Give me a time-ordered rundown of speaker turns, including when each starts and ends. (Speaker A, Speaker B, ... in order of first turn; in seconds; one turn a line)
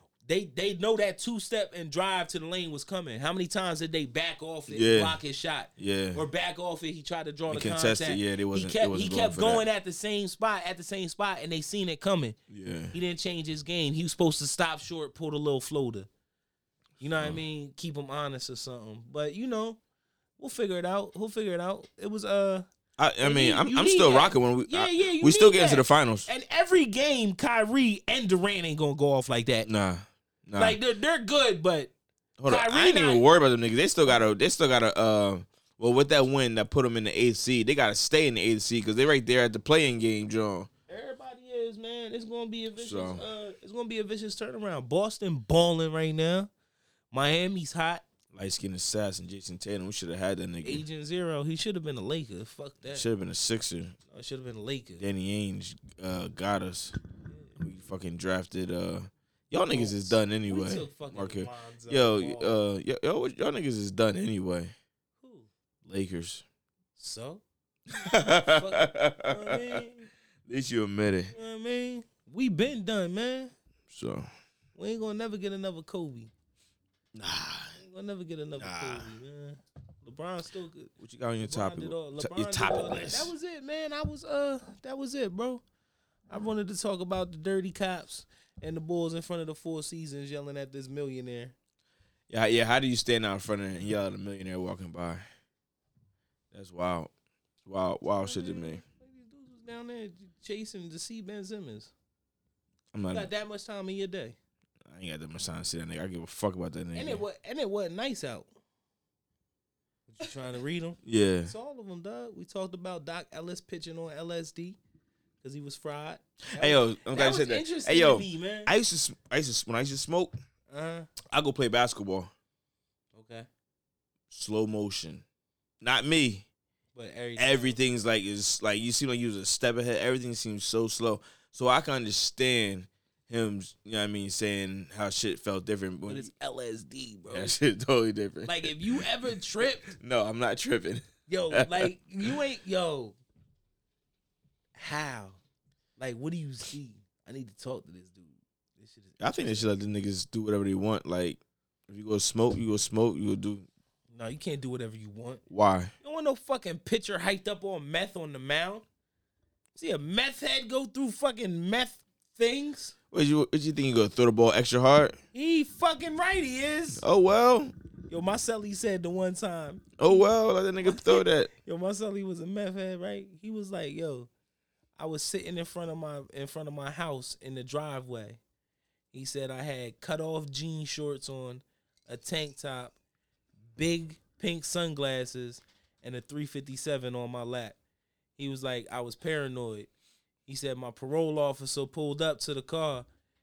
Speaker A: 0.3-12.4
Speaker B: 4.7-5.2
Speaker B: 5.8-6.2
Speaker B: 7.5-9.7
Speaker B: 12.5-12.9
Speaker A: 12.9-16.1
Speaker A: 17.0-19.8
Speaker A: 20.4-22.7
Speaker B: 23.0-26.3
Speaker A: 23.2-29.7
Speaker B: 29.6-30.8
Speaker A: 30.6-31.9
Speaker B: 32.4-40.7
Speaker A: 32.5-33.2
Speaker A: 40.9-46.5
Speaker B: 42.8-43.2
Speaker A: 47.1-48.0
Speaker B: 48.3-50.8
Speaker A: 50.6-53.1
Speaker B: 52.9-54.0
Speaker A: 54.1-55.0
Speaker B: 55.0-57.0
Speaker A: 57.3-57.6
Speaker B: 57.6-64.7
Speaker A: 59.7-62.6
Speaker A: 65.2-65.5
Speaker B: 65.8-66.4
Speaker A: 67.0-67.4
Speaker B: 67.9-69.8
Speaker A: 68.3-70.1
Speaker B: 70.5-71.3
Speaker A: 71.3-73.5
Speaker B: 73.9-74.3
Speaker A: 74.8-76.3
Speaker B: 77.1-77.8
Speaker A: 77.8-85.6
Speaker B: 78.6-79.1
Speaker B: 81.0-83.3
Speaker A: 86.3-91.5
Speaker B: 92.3-95.2
Speaker B: 96.5-97.1
Speaker B: 97.7-98.8
Speaker A: 98.1-101.9
Speaker B: 102.9-103.3
Speaker A: 103.1-104.4
Speaker B: 104.8-107.2
Speaker A: 106.9-108.5
Speaker A: 110.1-114.8
Speaker B: 111.0-111.5
Speaker A: 115.4-118.7
Speaker B: 116.5-120.3
Speaker A: 120.7-121.1
Speaker B: 121.3-122.3
Speaker A: 123.1-123.5
Speaker B: 124.3-125.2
Speaker B: 125.8-126.5
Speaker A: 127.0-127.8
Speaker B: 127.4-136.3
Speaker A: 136.1-137.6
Speaker B: 137.3-139.0
Speaker A: 138.5-139.9
Speaker B: 139.9-141.9
Speaker A: 141.3-143.2
Speaker A: 144.8-145.4
Speaker A: 146.0-149.7
Speaker B: 149.2-153.7
Speaker A: 154.1-155.4
Speaker B: 155.5-155.9
Speaker A: 156.0-158.8
Speaker A: 159.8-162.9
Speaker B: 163.1-165.2
Speaker A: 165.3-167.0
Speaker B: 167.0-167.7
Speaker A: 168.1-170.2
Speaker B: 170.0-171.5
Speaker A: 170.8-174.3
Speaker A: 175.0-178.4
Speaker A: 179.1-183.0
Speaker A: 183.8-187.8
Speaker A: 188.4-189.9
Speaker A: 190.5-193.1